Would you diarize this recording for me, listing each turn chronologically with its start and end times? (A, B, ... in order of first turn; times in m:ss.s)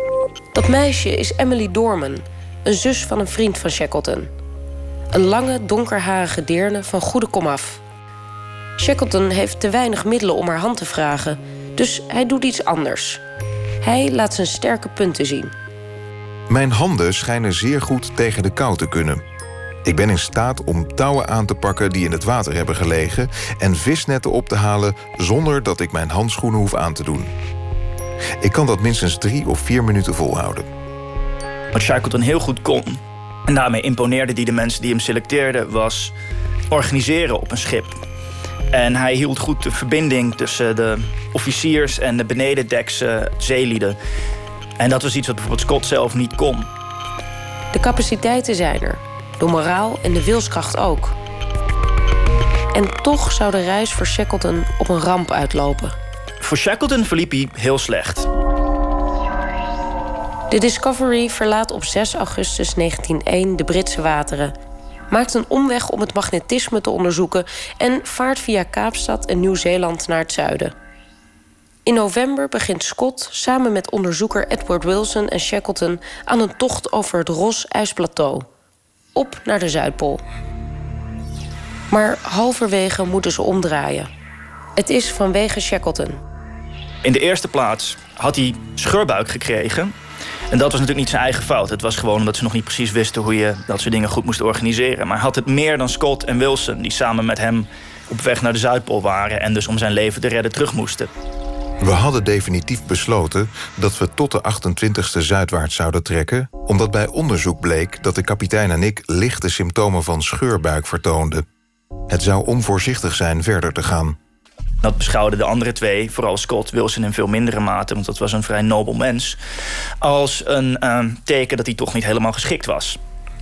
0:00.5-0:04.3 A
0:05.1-0:07.8 A
0:08.8-0:13.2 A
0:13.8-0:15.5 A
0:16.5-0:19.2 B
0:19.8-0:27.3 B
0:28.4-0:30.7 B
0:31.7-0:36.1 C
0:36.7-0:38.0 C
0:38.7-0:44.0 C
0:44.8-0:46.7 C
0:47.7-0:51.1 A
0:52.7-0:55.9 A
0:56.4-0:58.3 C
1:00.5-1:04.5 A
1:05.1-1:10.7 A
1:11.8-1:18.4 A
1:19.1-1:20.2 A
1:21.9-1:24.1 A
1:24.8-1:26.2 A
1:27.0-1:29.9 C
1:30.5-1:41.1 C
1:41.8-1:51.4 B
1:52.1-1:54.2 B
1:54.8-1:59.4 C
2:00.0-2:03.0 C